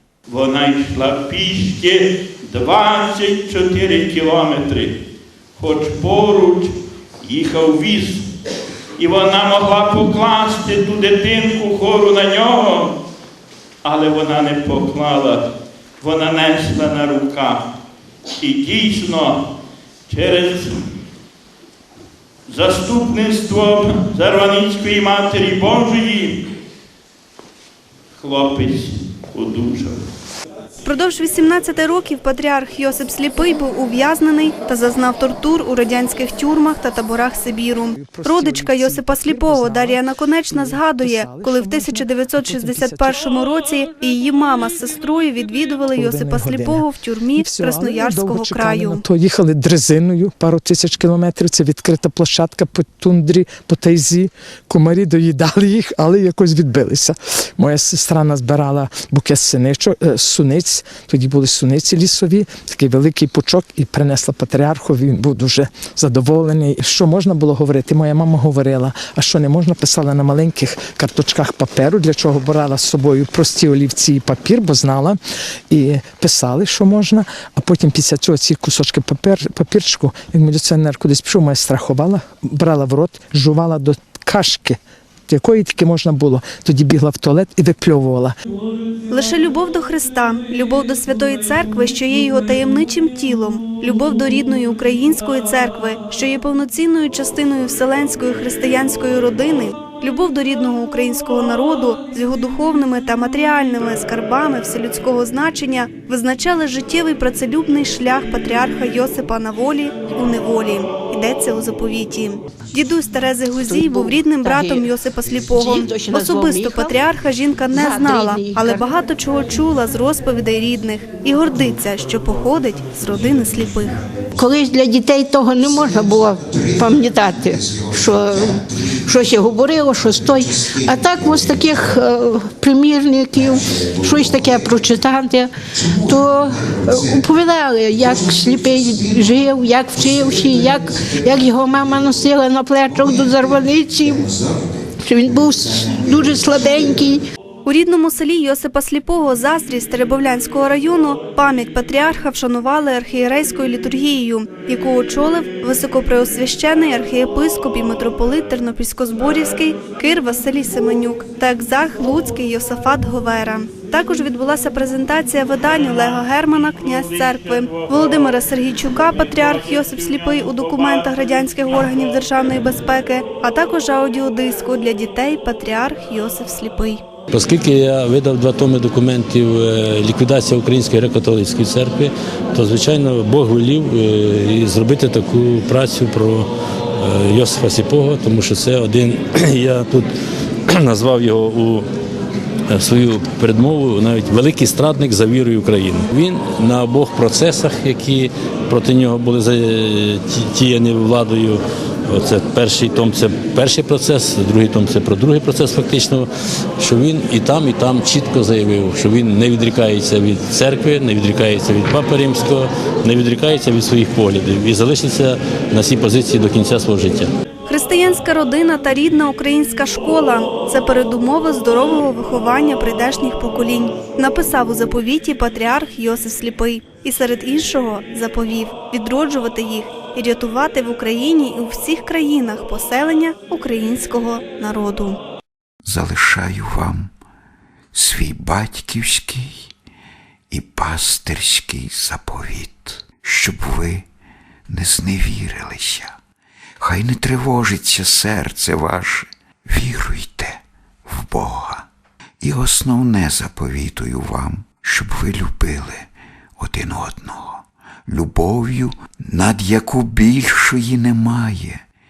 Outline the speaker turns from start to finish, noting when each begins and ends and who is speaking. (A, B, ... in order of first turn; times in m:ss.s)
0:00.3-0:04.9 A
0:05.6-0:06.7 A
0:07.2-0:08.2 A
0:09.0-0:12.9 A
0:13.8-0:15.4 A
0:16.0-0:17.6 A
0:18.4-0:19.4 A
0:20.1-0:20.8 A
0:22.5-0:26.3 A
0:28.2-0:30.0 A
0:30.8-0:49.0 B
0:38.0-0:43.2 C
0:45.9-1:15.2 C
1:15.7-1:28.3 C
1:29.1-2:03.9 B
1:53.6-1:54.9 D
1:55.4-1:57.0 D
1:57.7-1:58.9 D
2:04.3-2:24.3 D
2:06.6-2:08.3 E
2:10.2-2:11.8 E
2:13.4-2:15.0 E
2:15.8-2:17.4 E
2:18.0-2:24.7 E
2:25.0-2:27.2 D
2:25.3-2:27.1 E
2:27.6-2:57.0 B
2:57.3-3:10.1 F
3:10.7-3:11.8 F
3:12.7-3:26.3 F
3:26.8-3:37.3 F
3:37.7-3:55.2 B
3:55.8-3:57.1 E
3:57.9-3:59.7 E
4:00.5-4:04.0 E
4:04.7-4:06.1 E
4:06.8-4:11.8 E
4:12.4-4:21.8 E